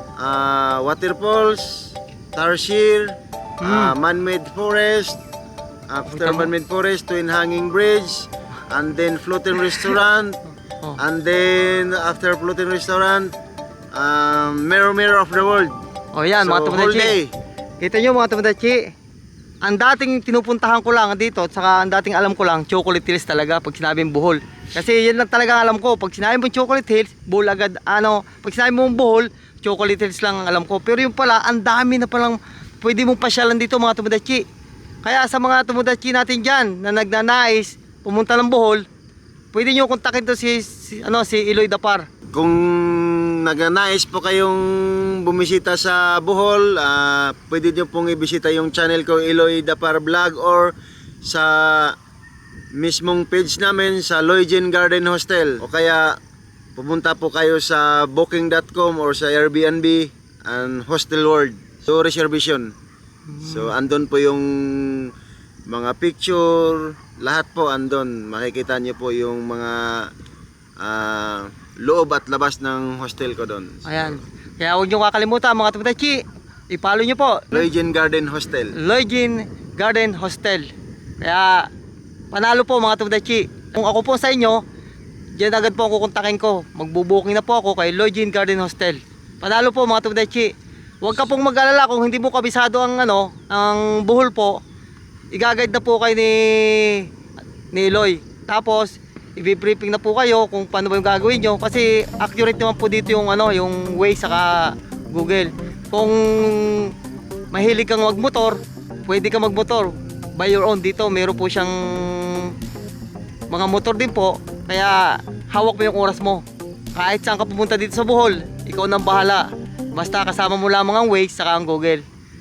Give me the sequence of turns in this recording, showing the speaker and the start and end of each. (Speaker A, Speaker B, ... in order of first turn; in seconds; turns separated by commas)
Speaker A: 0.2-5.2, Speaker B: 3.6-3.9, Speaker A: 5.9-10.4, Speaker B: 6.1-6.5, Speaker A: 11.0-13.3, Speaker A: 13.9-15.7, Speaker B: 16.1-17.2, Speaker A: 16.4-17.3, Speaker B: 17.8-18.9, Speaker B: 19.6-34.4, Speaker B: 35.0-38.8, Speaker B: 39.5-42.0, Speaker A: 42.3-52.0, Speaker A: 52.7-56.2, Speaker A: 56.8-62.7, Speaker B: 63.3-63.7, Speaker A: 63.4-65.1, Speaker A: 65.7-70.1, Speaker A: 70.8-74.2, Speaker B: 73.8-77.6, Speaker A: 77.5-78.7, Speaker B: 78.7-80.7, Speaker B: 81.2-81.7, Speaker B: 82.3-84.6, Speaker B: 85.3-94.6, Speaker B: 95.3-97.1, Speaker B: 97.7-106.9, Speaker B: 107.5-112.5, Speaker B: 113.5-116.4, Speaker B: 116.9-122.0